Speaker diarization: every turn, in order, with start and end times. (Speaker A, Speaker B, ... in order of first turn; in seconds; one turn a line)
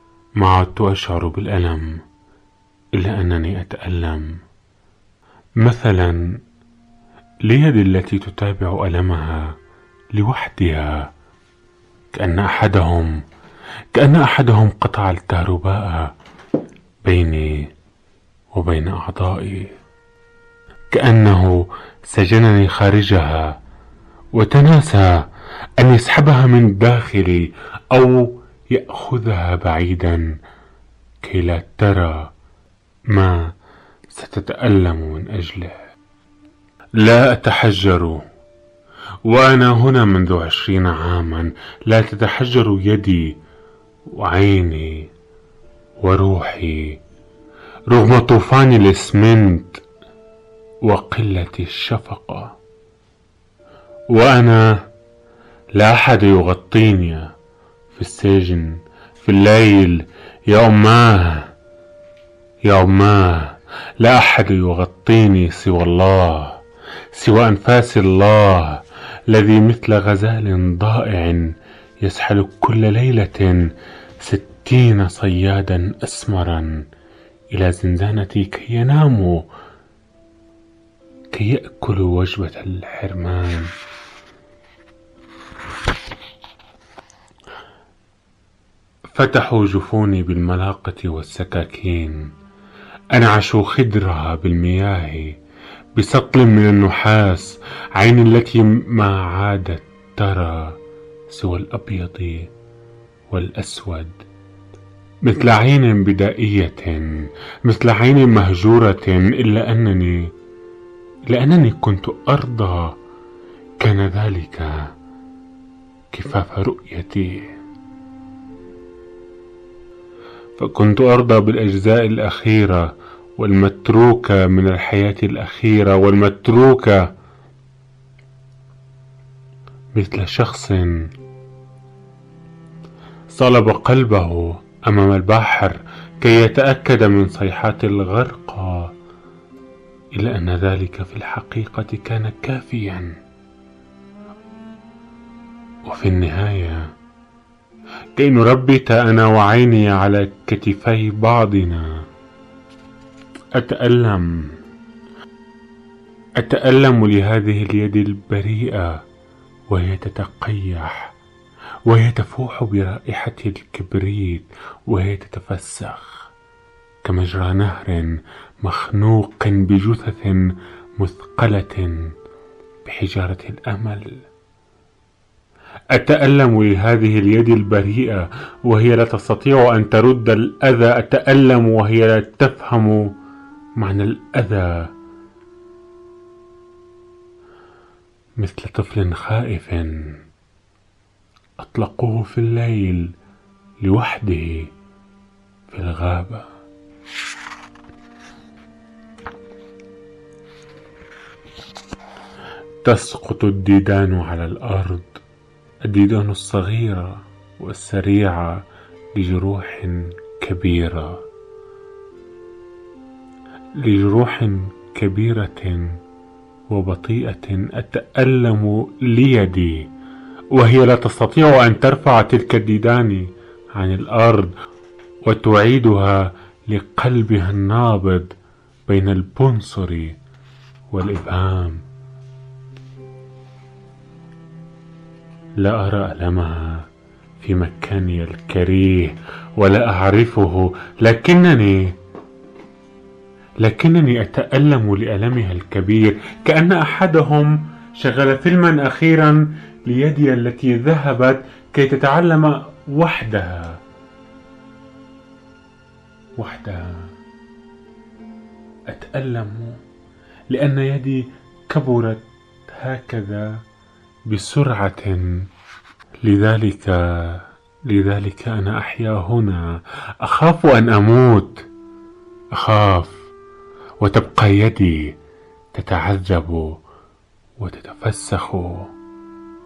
Speaker A: 0.4-2.0
Speaker A: 3.0-4.4
Speaker A: 5.6-6.4
Speaker A: 7.5-9.6
Speaker A: 10.1-11.1
Speaker A: 12.1-13.2
Speaker A: 13.9-16.1
Speaker A: 17.1-17.7
Speaker A: 18.5-19.7
Speaker A: 20.9-23.6
Speaker A: 24.3-25.2
Speaker A: 25.8-30.3
Speaker A: 31.2-32.3
Speaker A: 33.1-33.5
Speaker A: 34.1-35.8
Speaker A: 37.0-38.2
Speaker A: 39.2-43.4
Speaker A: 44.1-45.1
Speaker A: 46.0-47.0
Speaker A: 47.9-49.8
Speaker A: 50.8-52.5
Speaker A: 54.1-54.8
Speaker A: 55.8-57.3
Speaker A: 57.9-61.5
Speaker A: 62.7-66.6
Speaker A: 67.1-71.5
Speaker A: 72.0-73.7
Speaker A: 74.2-76.8
Speaker A: 77.5-79.4
Speaker A: 81.3-83.7
Speaker A: 89.1-92.3
Speaker A: 93.1-95.3
Speaker A: 96.0-102.5
Speaker A: 103.3-104.2
Speaker A: 105.2-107.1
Speaker A: 107.6-110.3
Speaker A: 111.3-112.9
Speaker A: 113.8-114.9
Speaker A: 116.1-117.6
Speaker A: 120.6-127.1
Speaker A: 129.9-131.0
Speaker A: 133.3-138.9
Speaker A: 140.2-143.1
Speaker A: 145.9-146.9
Speaker A: 148.2-151.9
Speaker A: 153.6-154.5
Speaker A: 156.4-159.0
Speaker A: 159.7-161.1
Speaker A: 161.9-166.3
Speaker A: 167.0-170.4
Speaker A: 171.0-172.0
Speaker A: 172.8-174.3
Speaker A: 175.9-183.1
Speaker A: 183.8-184.9
Speaker A: 188.4-190.2
Speaker A: 191.6-193.1
Speaker A: 193.8-194.7
Speaker A: 195.7-196.4
Speaker A: 202.8-205.2
Speaker A: 205.9-208.6
Speaker A: 209.2-211.2
Speaker A: 213.8-215.9
Speaker A: 216.7-219.9
Speaker A: 220.5-224.5
Speaker A: 225.3-228.3
Speaker A: 228.9-230.2
Speaker A: 230.9-231.8
Speaker A: 235.6-236.8
Speaker A: 237.4-241.9
Speaker A: 243.6-253.8
Speaker A: 256.4-257.0
Speaker A: 258.9-259.8
Speaker A: 260.5-263.5
Speaker A: 264.3-265.3
Speaker A: 266.2-271.6
Speaker A: 272.5-273.2
Speaker A: 274.0-275.1
Speaker A: 275.7-276.8
Speaker A: 277.6-278.9